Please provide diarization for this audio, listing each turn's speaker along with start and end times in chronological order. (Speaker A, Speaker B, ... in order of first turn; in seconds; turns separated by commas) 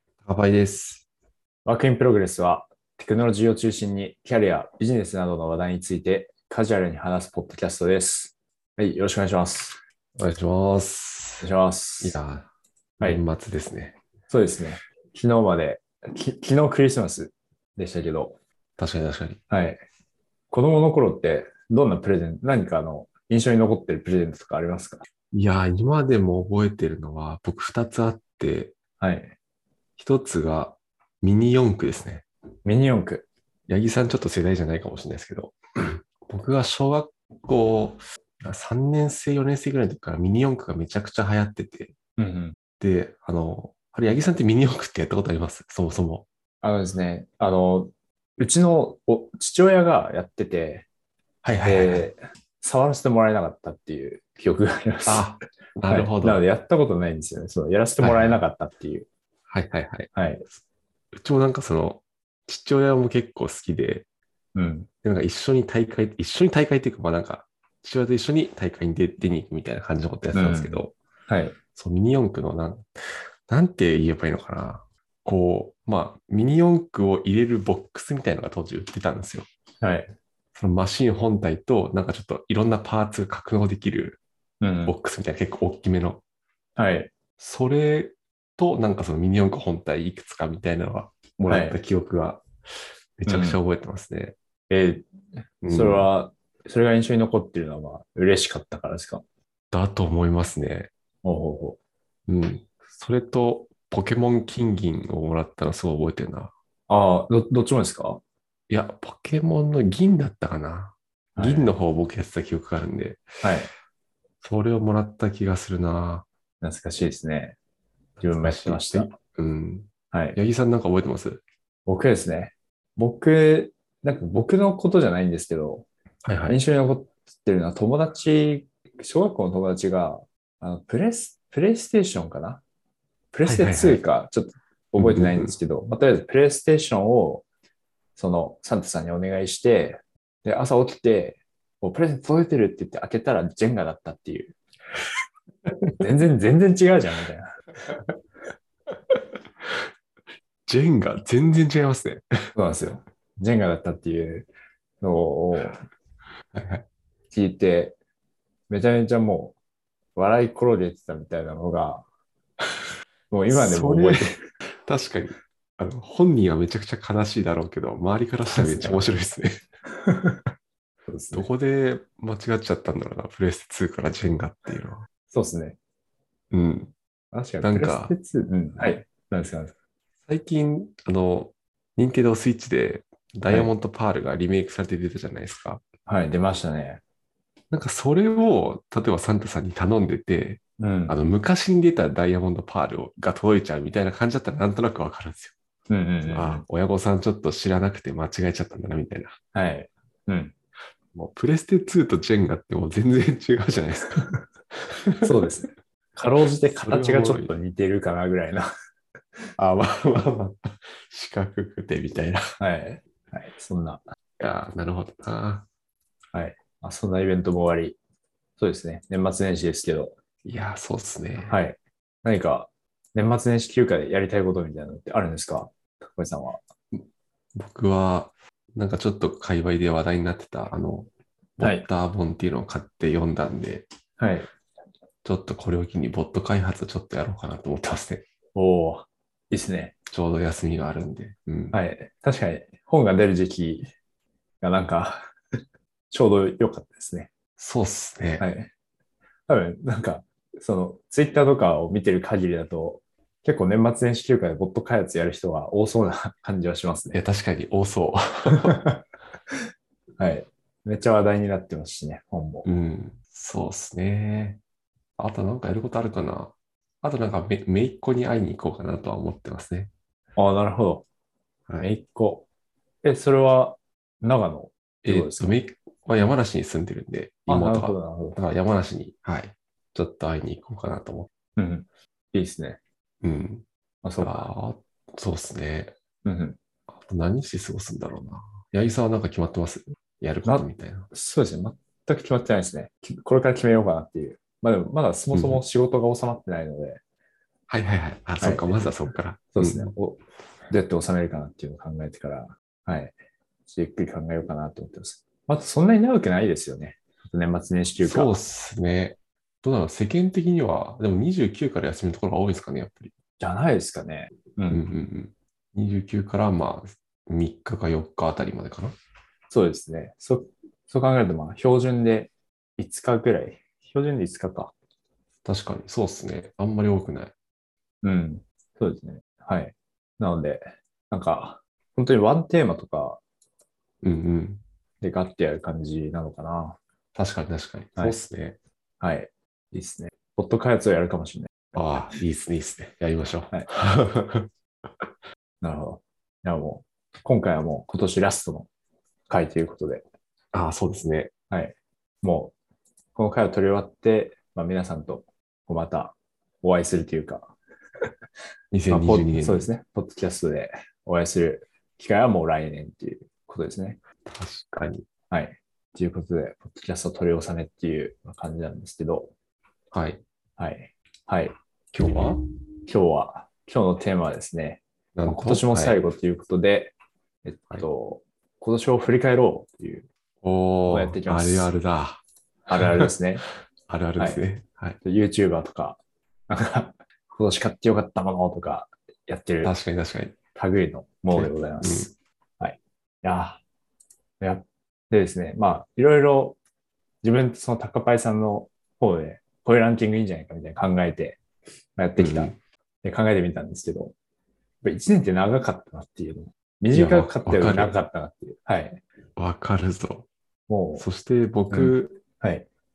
Speaker A: 0.2-1.1, Speaker B: 1.6-9.8, Speaker A: 10.2-11.5, Speaker B: 11.4-12.2, Speaker A: 12.0-12.5, Speaker A: 13.0-14.0, Speaker B: 14.3-18.4, Speaker A: 18.8-19.4, Speaker B: 19.5-19.8, Speaker B: 20.5-25.1, Speaker A: 25.3-28.8, Speaker B: 29.0-29.3, Speaker A: 30.0-32.2, Speaker B: 32.6-33.3, Speaker A: 33.7-42.0, Speaker B: 42.2-42.5, Speaker A: 42.8-46.3, Speaker B: 46.6-50.9, Speaker A: 51.4-52.1, Speaker B: 51.6-55.3, Speaker A: 55.1-56.4, Speaker B: 55.9-59.1, Speaker A: 58.0-58.4, Speaker A: 59.5-60.1, Speaker B: 60.1-60.5, Speaker A: 61.1-64.0, Speaker B: 64.5-64.9, Speaker A: 65.0-71.0, Speaker B: 70.3-71.6, Speaker A: 71.7-72.9, Speaker A: 73.5-79.5, Speaker B: 79.8-80.1, Speaker A: 80.5-84.2, Speaker B: 84.6-84.9, Speaker A: 84.8-86.2, Speaker B: 86.8-87.1, Speaker A: 87.4-92.5, Speaker B: 91.5-91.8, Speaker A: 93.2-94.4, Speaker B: 93.3-93.6, Speaker B: 94.7-95.1, Speaker A: 95.6-96.1, Speaker B: 95.7-99.2, Speaker A: 99.7-100.9, Speaker B: 101.2-101.8, Speaker A: 102.3-106.5, Speaker B: 106.9-108.2, Speaker A: 108.7-113.3, Speaker B: 111.4-111.7, Speaker B: 113.4-113.7, Speaker A: 114.4-116.3, Speaker B: 116.6-117.6, Speaker A: 118.2-121.4, Speaker B: 118.2-119.1, Speaker B: 120.1-120.4, Speaker B: 121.9-125.9, Speaker A: 126.2-126.6, Speaker B: 126.5-132.6, Speaker B: 133.3-137.4, Speaker A: 133.4-134.0, Speaker A: 135.0-135.5, Speaker B: 138.2-144.6, Speaker B: 146.0-147.5, Speaker A: 149.1-149.9, Speaker A: 150.7-152.3, Speaker B: 152.6-154.5, Speaker B: 155.0-155.8, Speaker A: 156.5-156.8, Speaker B: 157.3-158.0, Speaker B: 158.7-159.6, Speaker B: 160.2-162.0, Speaker B: 163.3-164.4, Speaker A: 163.5-169.6, Speaker B: 168.5-169.1, Speaker B: 170.0-170.4, Speaker B: 171.1-171.5, Speaker A: 171.3-175.1, Speaker B: 175.3-175.8, Speaker A: 176.5-176.9, Speaker B: 177.3-179.7, Speaker A: 177.6-178.1, Speaker A: 180.3-185.8, Speaker B: 186.1-187.0, Speaker A: 187.7-195.5, Speaker B: 190.8-191.2, Speaker B: 195.9-196.7, Speaker A: 196.3-199.4, Speaker B: 199.5-200.5, Speaker A: 201.1-204.3, Speaker A: 204.9-205.5, Speaker B: 205.2-208.7, Speaker A: 206.7-207.5, Speaker A: 209.6-212.6, Speaker B: 212.6-214.0, Speaker A: 214.4-215.7, Speaker B: 216.3-218.0, Speaker B: 218.6-220.2, Speaker A: 220.4-221.6, Speaker B: 221.4-226.6, Speaker A: 227.6-233.8, Speaker B: 231.6-231.9, Speaker B: 234.2-234.5, Speaker A: 235.2-238.2, Speaker B: 238.6-239.9, Speaker A: 240.1-241.8, Speaker B: 241.7-243.9, Speaker B: 244.6-245.3, Speaker B: 246.1-247.3, Speaker A: 247.6-248.5, Speaker B: 248.4-248.7, Speaker B: 249.5-257.2, Speaker A: 257.1-258.8, Speaker B: 258.5-259.0, Speaker B: 260.2-262.7, Speaker A: 262.6-264.6, Speaker A: 265.2-269.9, Speaker B: 270.4-271.1, Speaker B: 271.8-272.5, Speaker B: 273.0-275.6, Speaker A: 275.0-281.3, Speaker B: 277.5-278.4, Speaker B: 281.6-282.8, Speaker A: 283.2-283.6, Speaker B: 284.0-284.5, Speaker A: 284.2-286.0, Speaker B: 286.2-286.6, Speaker A: 286.9-291.1, Speaker B: 290.4-297.0, Speaker A: 295.3-295.6, Speaker A: 297.7-299.9, Speaker B: 298.4-298.8, Speaker B: 299.5-303.1, Speaker B: 303.7-308.4, Speaker A: 308.0-313.1, Speaker B: 313.4-314.9, Speaker A: 314.7-319.0, Speaker B: 319.5-324.7, Speaker A: 325.4-327.3, Speaker B: 328.0-333.2, Speaker A: 334.0-334.6, Speaker B: 335.0-336.8, Speaker A: 337.1-338.6, Speaker B: 339.0-341.5, Speaker A: 341.7-344.5, Speaker B: 345.6-348.7, Speaker B: 349.3-350.0, Speaker A: 350.5-351.3, Speaker B: 351.5-352.5, Speaker B: 353.2-357.5, Speaker A: 358.7-359.7, Speaker B: 358.9-364.0, Speaker A: 364.3-365.1, Speaker B: 365.3-369.3, Speaker A: 369.9-370.2, Speaker B: 370.6-371.6, Speaker A: 371.9-372.4, Speaker B: 372.9-376.9, Speaker A: 375.1-376.0, Speaker B: 377.4-380.1, Speaker A: 380.4-382.2, Speaker B: 380.9-381.7, Speaker B: 382.7-383.4, Speaker A: 382.8-383.1, Speaker A: 383.9-385.0, Speaker B: 385.0-389.7, Speaker A: 389.6-390.4, Speaker B: 390.6-393.6, Speaker A: 391.3-392.1, Speaker B: 394.4-396.6, Speaker B: 397.2-401.4, Speaker B: 402.0-402.5, Speaker A: 402.2-402.6, Speaker B: 403.0-404.1, Speaker B: 404.8-409.0, Speaker A: 406.9-407.9, Speaker A: 409.4-410.3, Speaker B: 410.7-411.1, Speaker A: 411.0-412.2, Speaker B: 411.7-412.7